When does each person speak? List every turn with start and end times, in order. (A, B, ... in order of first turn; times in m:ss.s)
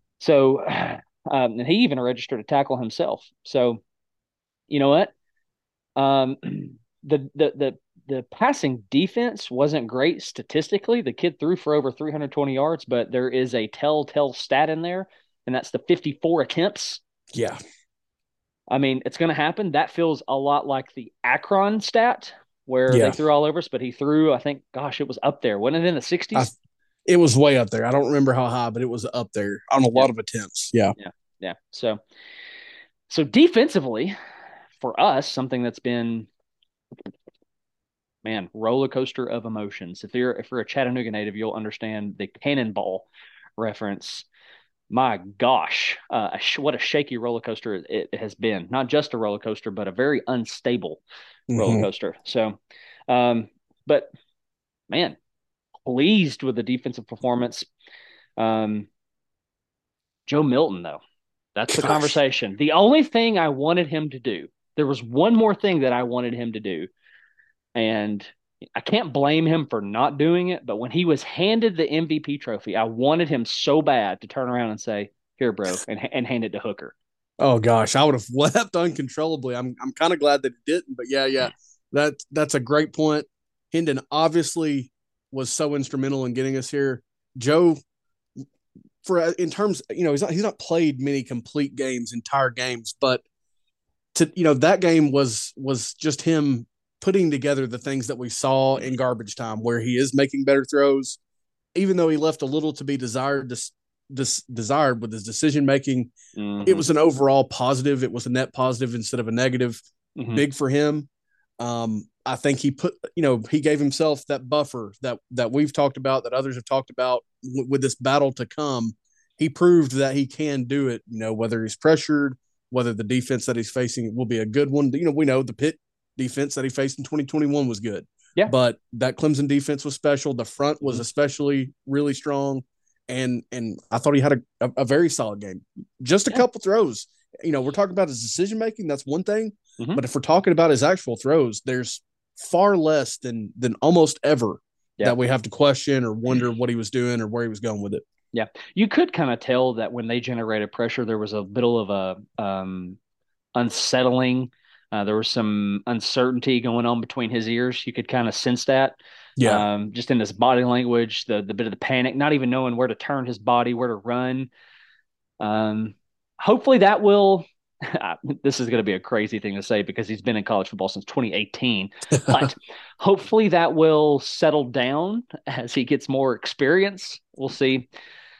0:00.2-0:03.8 A
0:04.7-0:05.1 A
0:06.0-0:17.0 A
0:18.7-0:26.5 A
0:22.9-0:23.2 B
0:27.0-0:30.9 B
0:31.0-0:32.0 A
0:33.1-0:34.1 A
0:34.8-0:36.3 A
0:38.2-0:44.3 A
0:44.9-0:51.0 A
0:51.5-0:51.9 B
0:51.6-0:54.1 A
0:54.9-0:55.2 A
0:55.8-0:57.7 A
0:58.4-0:58.9 A
1:00.3-1:01.0 A
1:01.6-1:06.9 A
1:01.7-1:02.1 B
1:07.8-1:16.9 A
1:17.4-1:27.8 B
1:29.0-1:33.2 B
1:34.1-1:41.2 B
1:41.7-1:46.1 B
1:46.4-1:46.9 A
1:46.6-1:49.8 B
1:50.2-1:50.4 A
1:50.3-1:51.1 B
1:51.6-2:28.0 B
2:28.3-2:33.0 A
2:33.6-2:44.5 A
2:39.4-2:39.6 B
2:45.4-2:57.8 A
2:52.2-2:52.5 B